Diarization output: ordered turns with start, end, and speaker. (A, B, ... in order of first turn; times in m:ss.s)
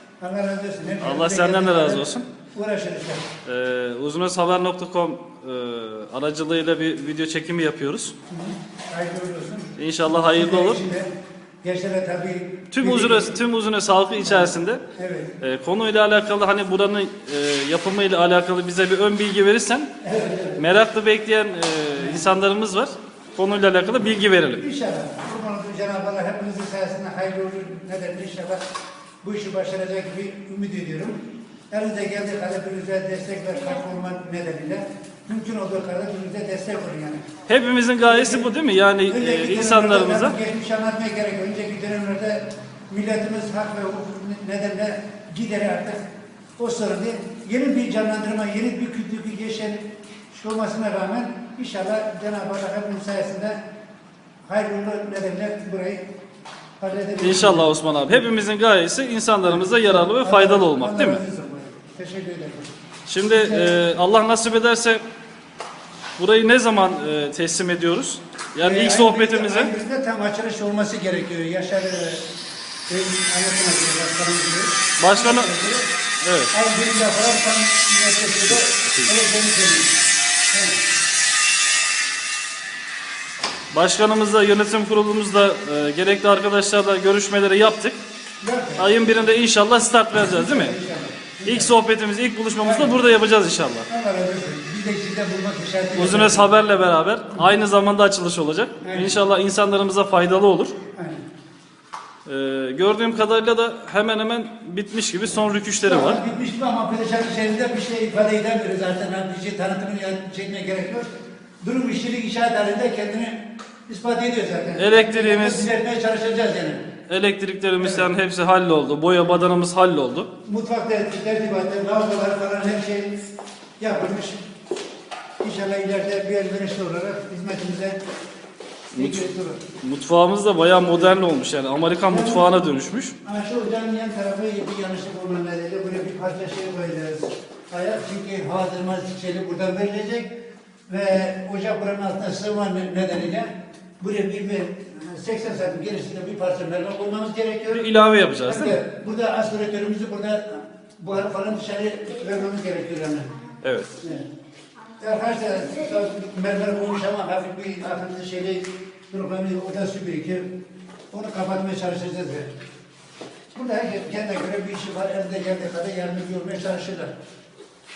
0:00.2-0:03.2 A
0:01.0-0:02.3 B
0:03.4-0:08.1 B
0:08.3-0:11.1 A
0:09.8-0:10.8 B
0:11.6-0:13.4 A
0:12.7-0:14.8 B
0:14.2-0:15.4 A
0:15.4-0:19.9 B
0:20.0-0:20.6 A
0:20.6-0:24.6 B
0:22.0-0:22.3 A
0:24.6-0:28.6 A
0:29.2-0:37.2 A
0:37.5-0:40.4 B
0:38.0-0:38.6 A
0:39.1-0:46.0 A
0:46.6-0:53.6 A
0:54.5-0:56.1 A
0:56.8-0:58.2 A
0:57.2-1:01.2 B
0:59.4-1:02.7 A
1:03.1-1:05.0 B
1:03.3-1:03.8 A
1:06.2-1:09.7 B
1:08.6-1:12.3 A
1:12.9-1:15.9 A
1:15.0-1:15.5 B
1:16.2-1:16.5 B
1:16.5-1:19.9 A
1:20.5-1:20.8 A
1:23.7-1:28.0 B
1:28.4-1:29.1 A
1:28.8-1:30.8 B
1:30.2-1:31.7 A
1:31.5-1:33.9 B
1:32.6-1:33.0 A
1:33.9-1:36.5 A
1:36.0-1:40.8 B
1:38.8-1:39.2 A
1:41.0-1:41.2 A
1:42.3-1:46.2 B
1:45.8-1:51.1 A
1:51.6-1:56.8 A
1:54.8-1:55.7 B
1:57.1-2:00.3 B
1:57.8-1:58.1 A
2:00.4-2:03.2 A
2:03.8-2:04.4 A
2:05.4-2:08.0 A
2:08.9-2:09.6 A
2:09.0-2:09.2 B
2:09.8-2:13.2 B
2:10.8-2:11.2 A
2:12.1-2:12.6 A
2:13.2-2:20.3 A
2:20.9-2:27.9 A
2:27.7-2:28.8 B
2:28.4-2:33.4 A
2:33.6-2:33.9 B
2:34.0-2:34.3 A
2:35.0-2:40.5 A
2:41.1-2:42.5 A
2:43.6-2:47.1 A